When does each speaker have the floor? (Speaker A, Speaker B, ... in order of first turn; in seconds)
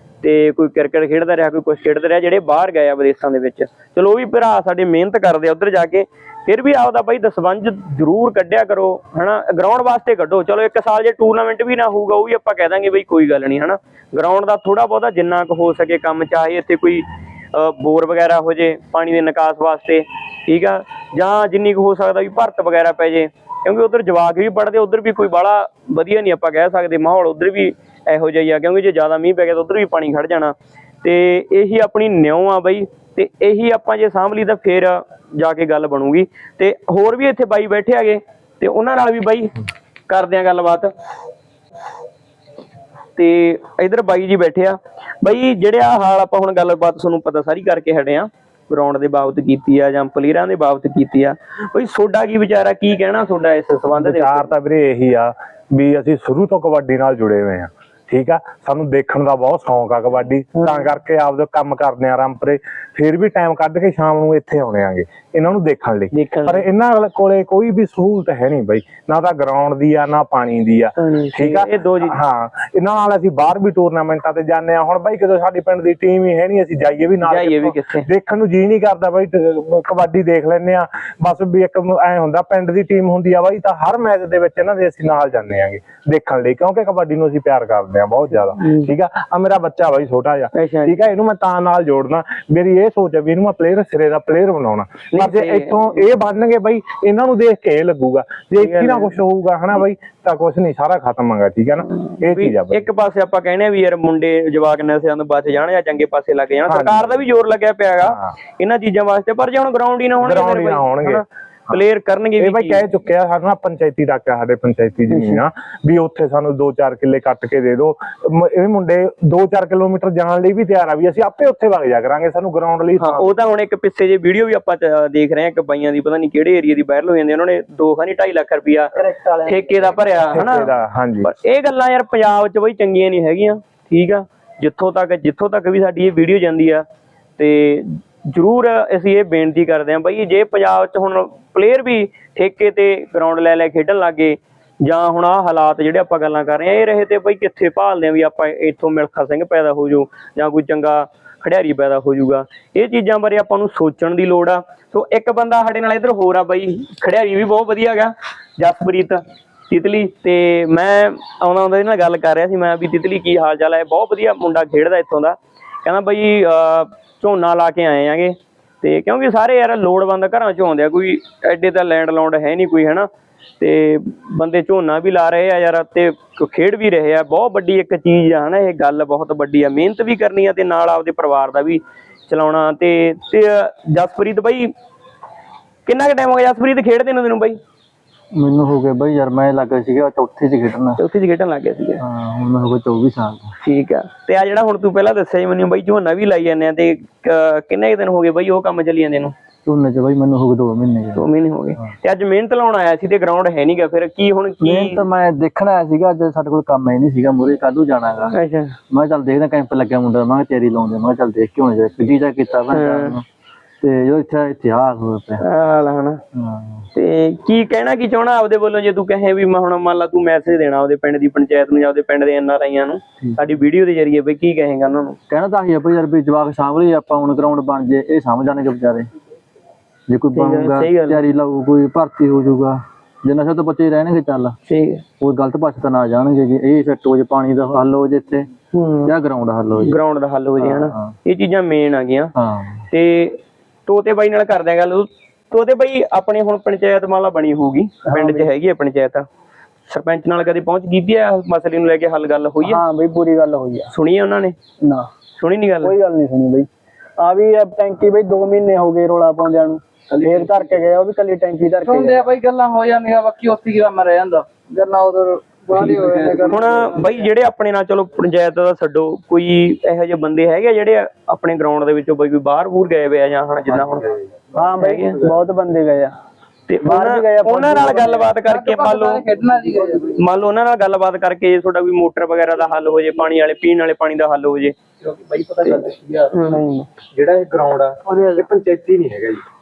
Speaker A: 0.2-39.5, 40.1-40.9, 43.1-54.5, 60.5-60.9, 66.1-66.7, 71.0-72.2, 77.2-78.1, 88.6-88.9, 90.5-91.0, 95.1-96.0, 98.6-99.2, 102.1-112.8, 115.1-115.4, 123.0-128.9, 129.4-130.7, 131.2-136.8, 137.4-184.7, 185.8-187.6, 191.0-192.0, 193.6-199.3, 201.2-205.0, 208.3-208.8, 212.7-213.2, 215.4-216.2, 216.9-225.2, 230.3-231.2, 234.7-235.0, 238.7-239.1, 239.8-242.3, 242.9-249.2, 249.9-252.8, 253.9-254.6, 255.4-255.9, 266.5-274.1, 274.8-275.2, 276.7-279.2, 280.1-284.7, 286.3-286.6
Speaker B: 54.0-102.8, 106.7-107.2, 108.0-108.3, 110.2-111.8, 112.4-123.3, 130.3-131.3
Speaker C: 129.0-129.9, 248.1-248.5, 252.6-253.9, 254.8-255.1, 255.8-256.7, 257.2-262.3, 274.5-276.1, 276.8-278.3, 286.5-286.9
Speaker D: 188.3-191.0, 192.0-193.5, 199.7-201.3, 204.6-208.3, 208.9-213.2, 213.8-215.4, 216.3-216.8, 225.3-229.1, 230.1-234.6, 235.2-238.5, 239.1-240.0, 240.6-241.1, 242.3-242.8
Speaker E: 260.1-260.8, 265.7-267.0, 273.7-274.6, 285.0-286.4, 287.0-289.4
Speaker F: 261.9-267.1, 278.4-280.2